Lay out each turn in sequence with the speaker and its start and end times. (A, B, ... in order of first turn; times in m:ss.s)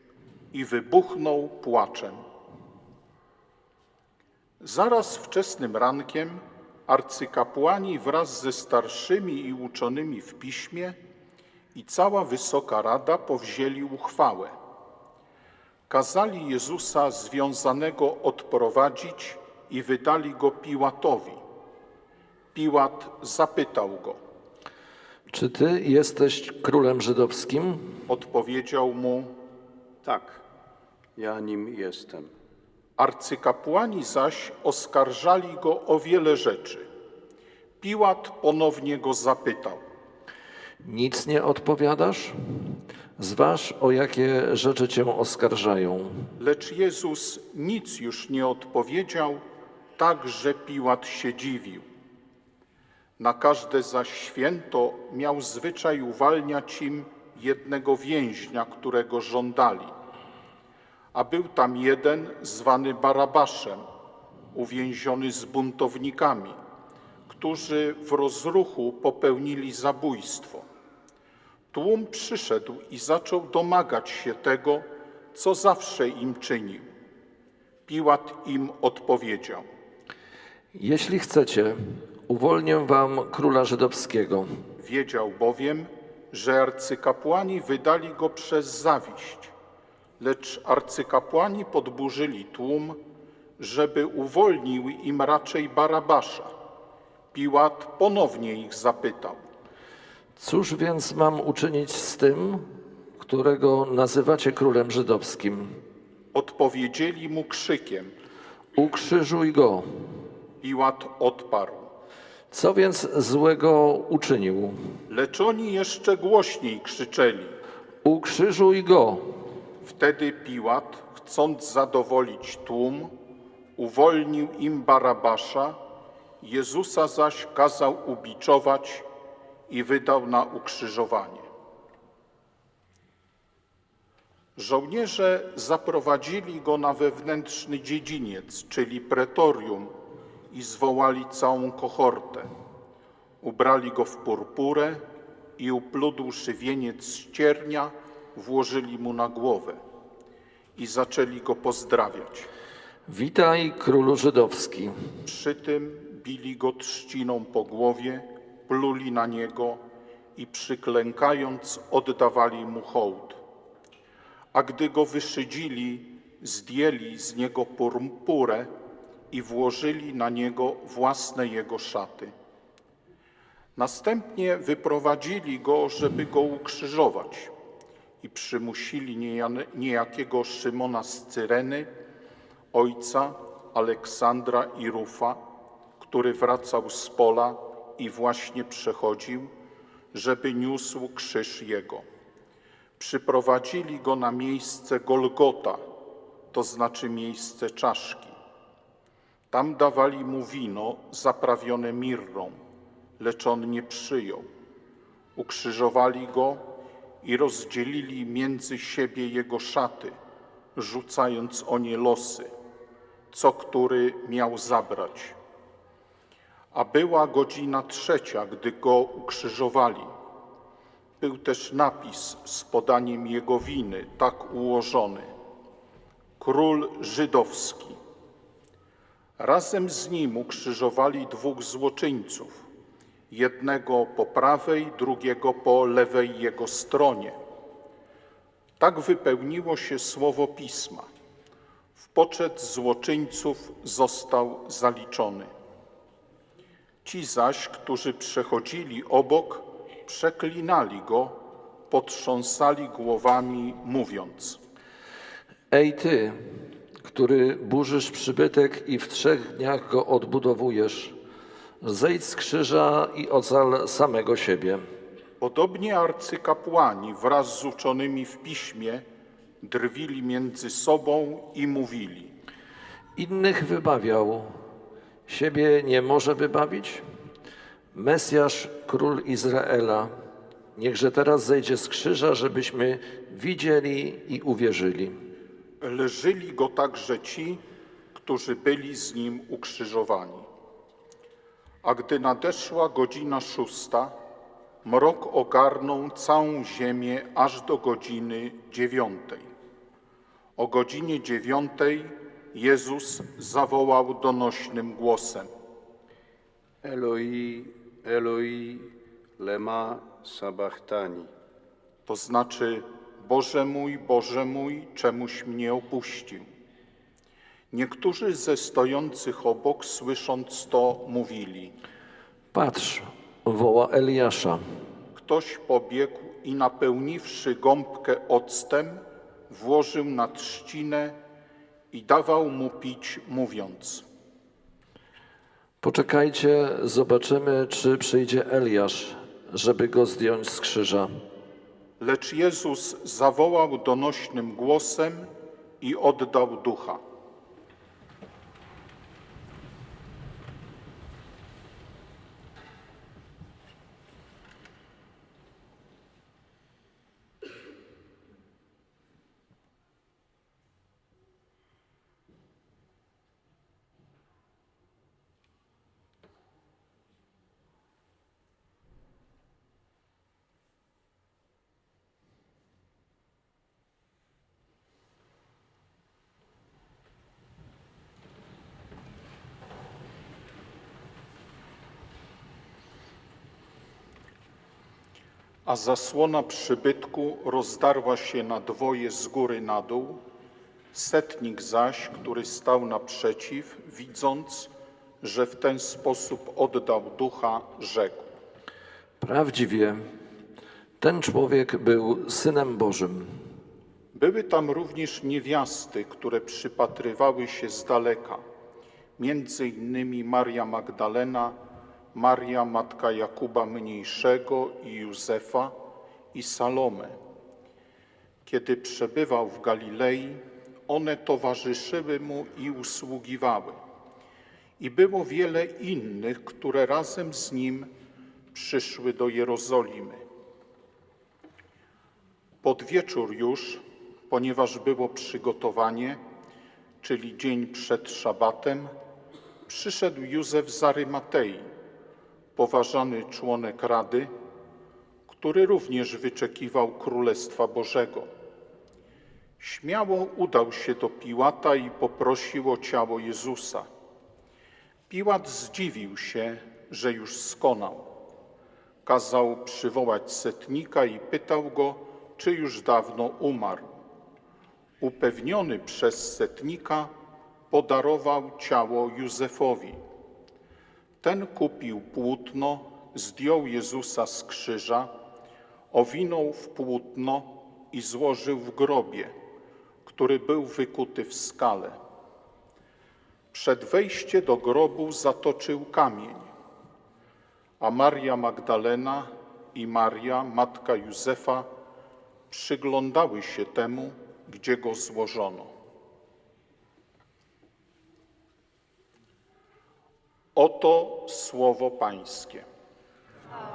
0:00.5-0:02.2 A
0:04.6-0:11.0 A
0:11.8-0:14.6 A
0:15.9-0:21.4 A
0:22.5-0:24.2 A
0:25.3-0:28.0 B
0:28.1-0:29.4 A
0:30.0-0:30.4 C
0:31.2-0:32.3 C
0:33.0-0:36.9 A
0:37.8-0:39.8 A
0:40.8-0:46.3 B
0:46.4-0:49.4 A
0:50.0-0:51.9 A
0:53.2-0:59.9 A
1:01.1-1:03.8 A
1:04.5-1:06.6 A
1:07.3-1:10.6 A
1:11.7-1:16.9 A
1:17.9-1:19.7 A
1:20.7-1:24.6 B
1:24.8-1:29.5 A
1:30.2-1:33.0 A
1:33.6-1:36.5 A
1:37.3-1:39.4 A
1:40.4-1:45.8 B
1:46.3-1:48.1 A
1:48.7-1:50.2 B
1:50.6-1:51.9 A
1:52.5-1:55.0 B
1:55.1-1:57.6 A
1:58.0-1:59.4 B
1:59.8-2:03.1 A
2:03.8-2:05.8 A
2:06.4-2:09.1 A
2:09.7-2:11.5 A
2:14.6-2:19.9 A
2:20.5-2:22.5 A
2:23.4-2:25.0 A
2:25.6-2:29.8 A
2:30.8-2:32.5 A
2:33.1-2:35.0 B
2:35.3-2:39.8 A
2:40.4-2:43.4 A
2:44.5-2:48.7 A
2:49.3-2:52.3 A
2:53.8-2:57.5 A
2:58.2-3:01.9 A
3:02.7-3:05.4 A
3:06.0-3:09.5 A
3:10.1-3:12.0 A
3:13.0-3:15.8 A
3:16.5-3:18.4 A
3:19.5-3:22.6 A
3:23.2-3:24.5 A
3:25.4-3:26.7 A
3:27.2-3:30.2 A
3:30.8-3:32.5 A
3:33.3-3:35.4 A
3:36.7-3:40.1 A
3:41.2-3:45.3 A
3:46.4-3:48.0 A
3:49.4-3:52.7 A
3:53.3-3:57.4 A
3:58.8-4:01.1 A
4:02.0-4:05.5 A
4:07.0-4:14.6 A
4:15.7-4:21.2 B
4:21.8-4:24.8 B
4:25.4-4:29.0 A
4:29.6-4:32.3 A
4:33.2-4:34.6 B
4:35.3-4:37.0 B
4:37.9-4:40.1 B
4:40.8-4:45.2 B
4:45.8-4:47.6 A
4:48.2-4:50.5 A
4:51.8-4:54.1 A
4:54.8-4:59.5 A
5:00.6-5:05.5 A
5:06.8-5:11.3 C
5:12.1-5:16.5 A
5:17.7-5:21.7 A
5:22.5-5:24.6 B
5:25.2-5:31.2 A
5:31.9-5:34.0 A
5:35.8-5:41.1 B
5:42.0-5:45.3 A
5:45.8-5:47.0 A
6:25.7-6:30.2 A
6:30.9-6:34.7 A
6:35.2-6:38.3 A
6:39.2-6:40.1 B
6:41.0-6:43.4 B
6:44.1-6:48.4 A
6:49.2-6:51.6 A
6:52.1-6:55.7 A
6:56.3-6:57.2 A
6:58.5-7:03.8 A
7:04.8-7:07.9 A
7:08.5-7:10.2 A
7:12.6-7:16.2 A
7:17.0-7:18.9 A
7:19.7-7:21.7 A
7:22.6-7:24.3 A
7:25.3-7:28.3 A
7:29.6-7:33.9 A
7:35.1-7:38.1 A
7:39.0-7:43.9 A
7:45.0-7:47.1 A
7:47.7-7:50.0 A
7:51.2-7:55.1 A
7:55.9-7:59.3 A
8:00.1-8:02.0 A
8:03.5-8:06.5 A
8:07.8-8:11.7 A
8:12.5-8:15.7 A
8:20.6-8:22.6 A